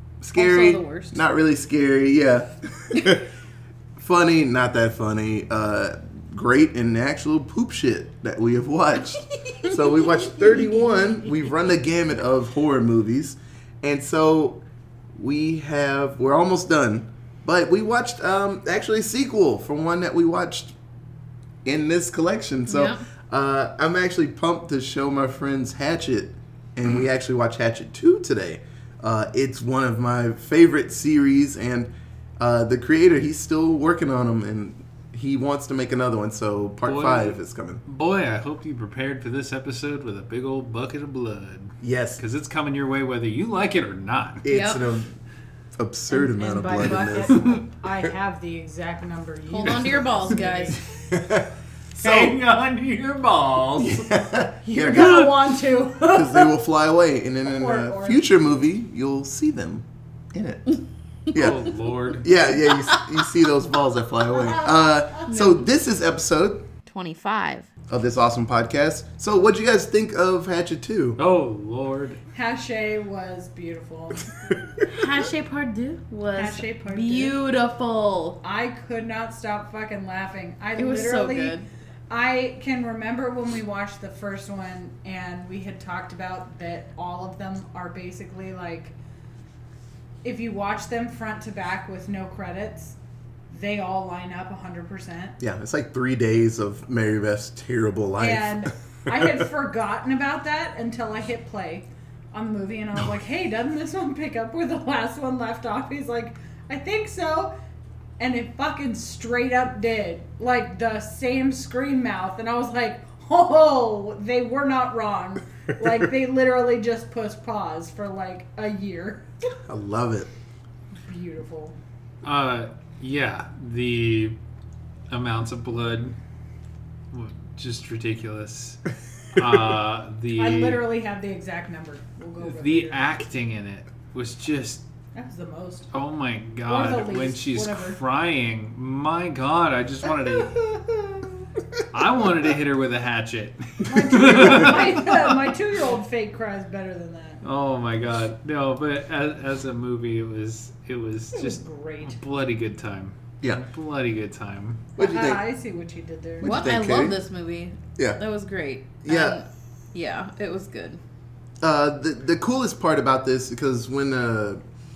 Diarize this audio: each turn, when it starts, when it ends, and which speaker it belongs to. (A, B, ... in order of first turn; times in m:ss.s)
0:00.2-0:03.2 A
0:00.4-0:01.2 B
0:04.0-0:14.6 A
0:09.5-0:09.9 B
0:15.2-0:20.7 A
0:21.6-0:37.8 A
0:22.7-0:23.0 B
0:36.8-0:44.4 C
0:41.8-0:42.2 A
0:44.4-0:45.2 A
0:44.5-0:44.8 B
0:45.8-0:47.4 A
0:46.1-0:50.8 D
0:49.5-0:50.8 B
0:51.1-0:52.4 A
0:52.0-0:54.1 C
0:53.8-0:55.2 A
0:54.6-0:56.6 D
0:54.9-0:55.3 C
0:56.1-1:00.8 A
0:57.5-0:58.2 D
1:01.3-1:06.7 A
1:01.3-1:02.3 C
1:04.4-1:05.2 D
1:05.3-1:05.7 B
1:06.9-1:07.7 B
1:07.9-1:11.2 A
1:11.2-1:12.2 C
1:12.3-1:14.3 D
1:14.9-1:18.4 B
1:16.4-1:17.3 D
1:18.4-1:21.6 D
1:20.8-1:21.6 B
1:22.1-1:29.0 D
1:30.2-1:33.0 D
1:33.5-1:35.4 D
1:35.4-1:39.4 A
1:38.2-1:47.6 D
1:48.2-1:59.3 D
1:59.7-2:00.3 A
2:01.1-2:01.8 D
2:02.2-2:04.4 C
2:05.1-2:06.2 C
2:07.1-2:10.8 C
2:10.4-2:13.0 D
2:12.4-2:14.8 C
2:15.2-2:15.9 D
2:15.9-2:20.8 C
2:16.6-2:18.0 D
2:21.9-2:25.5 C
2:23.9-2:27.4 D
2:27.4-2:34.9 C
2:31.4-2:32.2 D
2:35.0-2:35.4 A
2:35.0-2:36.6 D
2:36.4-2:37.2 A
2:36.4-2:41.0 B
2:39.0-2:39.4 A
2:41.6-2:44.6 A